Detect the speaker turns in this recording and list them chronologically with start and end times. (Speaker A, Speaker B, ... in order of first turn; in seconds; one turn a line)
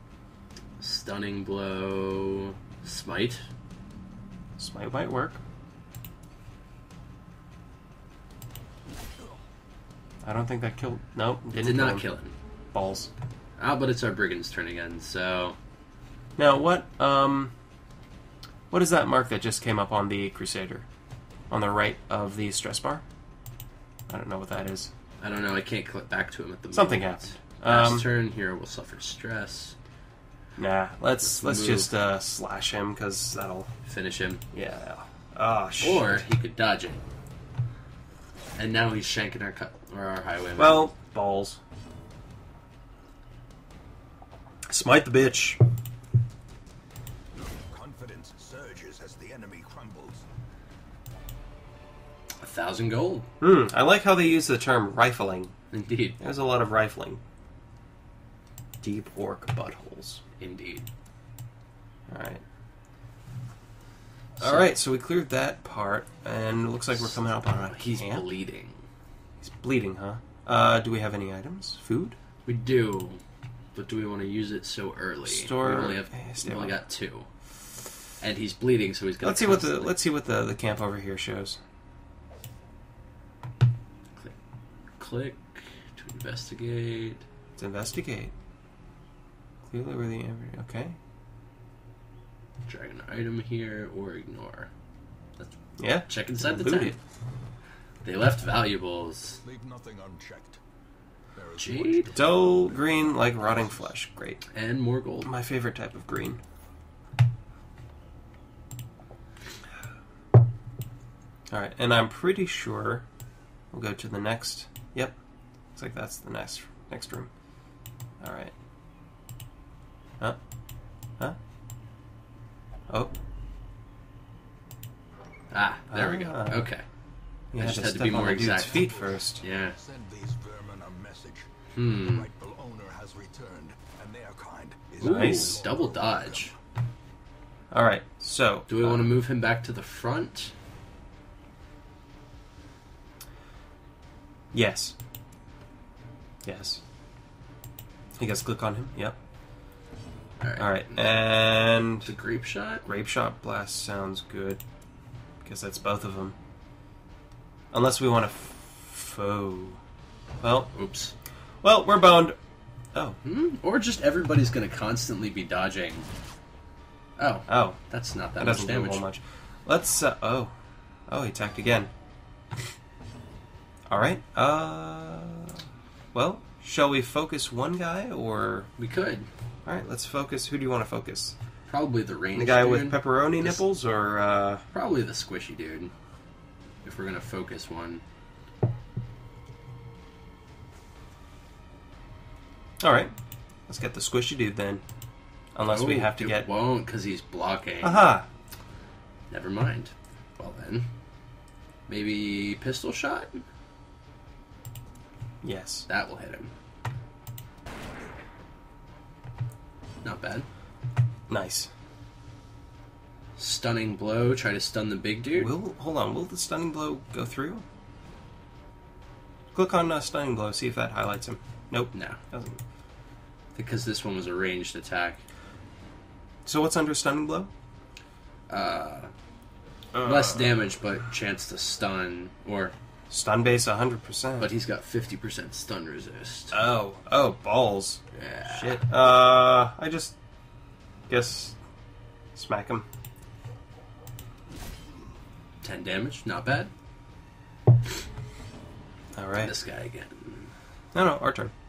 Speaker A: 0.8-3.4
Speaker B: 4.6-5.4
Speaker B: 10.2-12.1
Speaker A: 11.6-12.3
Speaker B: 12.7-13.1
Speaker A: 13.6-15.6
Speaker B: 16.4-17.5
Speaker B: 18.7-20.9
Speaker B: 21.5-23.0
Speaker B: 24.1-24.9
Speaker A: 25.2-29.8
Speaker B: 26.7-28.1
Speaker B: 30.6-33.7
Speaker A: 31.2-31.9
Speaker A: 33.9-34.4
Speaker B: 34.5-36.2
Speaker A: 35.8-37.0
Speaker A: 38.6-40.9
Speaker B: 40.6-41.6
Speaker B: 44.7-45.6
Speaker C: 47.5-50.2
Speaker A: 52.4-53.3
Speaker B: 53.4-55.5
Speaker A: 55.7-56.2
Speaker B: 56.2-57.2
Speaker B: 58.8-60.2
Speaker A: 60.4-60.9
Speaker B: 62.1-62.4
Speaker A: 64.4-64.7
Speaker B: 64.4-68.3
Speaker A: 67.0-68.8
Speaker B: 69.4-72.2
Speaker A: 72.5-73.2
Speaker A: 73.8-77.3
Speaker B: 75.3-76.8
Speaker A: 78.2-80.0
Speaker B: 79.2-81.6
Speaker A: 85.0-87.2
Speaker B: 87.6-88.3
Speaker B: 89.7-91.0
Speaker A: 92.7-94.7
Speaker A: 95.4-97.0
Speaker B: 95.8-97.0
Speaker A: 98.0-99.4
Speaker C: 99.4-100.6
Speaker C: 101.3-103.9
Speaker A: 101.6-102.2
Speaker B: 102.1-104.5
Speaker A: 104.5-105.3
Speaker B: 105.2-106.4
Speaker B: 111.5-113.0
Speaker B: 113.7-115.2
Speaker B: 115.8-117.3
Speaker B: 118.2-118.5
Speaker A: 125.5-126.8
Speaker B: 125.9-126.7
Speaker B: 127.5-129.4
Speaker A: 127.5-129.8
Speaker C: 128.1-136.6
Speaker A: 131.8-132.3
Speaker B: 135.0-135.6
Speaker A: 135.0-136.5
Speaker B: 137.7-139.1
Speaker A: 138.7-140.5
Speaker B: 144.5-144.9
Speaker B: 146.4-146.8
Speaker B: 148.2-149.2
Speaker A: 150.4-151.2
Speaker B: 150.6-152.1
Speaker A: 152.0-152.8
Speaker B: 152.9-154.6
Speaker B: 155.4-156.4
Speaker B: 157.7-159.8
Speaker B: 160.4-160.7
Speaker A: 160.7-161.1
Speaker B: 161.6-162.4
Speaker A: 163.2-166.1
Speaker A: 167.2-169.1
Speaker B: 167.5-167.8
Speaker B: 168.4-170.5
Speaker B: 171.1-171.9
Speaker B: 173.9-175.6
Speaker B: 176.1-178.7
Speaker A: 178.8-179.3
Speaker B: 179.7-181.3
Speaker A: 181.7-183.6
Speaker B: 182.3-184.6
Speaker A: 184.7-185.9
Speaker A: 186.8-188.0
Speaker B: 192.8-193.1
Speaker B: 193.7-194.8
Speaker B: 195.6-196.5
Speaker A: 195.6-198.2
Speaker B: 197.8-198.3
Speaker A: 199.3-200.9
Speaker A: 201.9-203.4
Speaker B: 205.4-205.9
Speaker A: 205.9-206.5
Speaker A: 210.0-210.5
Speaker B: 211.3-211.7
Speaker A: 213.4-215.6
Speaker B: 215.3-217.7
Speaker B: 219.5-222.6
Speaker A: 221.9-222.2
Speaker A: 223.6-225.2
Speaker B: 226.5-227.5
Speaker A: 228.5-229.1
Speaker B: 229.9-230.7
Speaker A: 230.0-232.7
Speaker B: 233.1-234.5
Speaker A: 234.4-236.6
Speaker B: 236.5-240.2
Speaker A: 238.1-238.9
Speaker B: 241.1-241.6
Speaker B: 242.3-242.9
Speaker A: 245.6-246.7
Speaker B: 249.2-249.5
Speaker A: 249.4-250.5
Speaker B: 250.9-251.5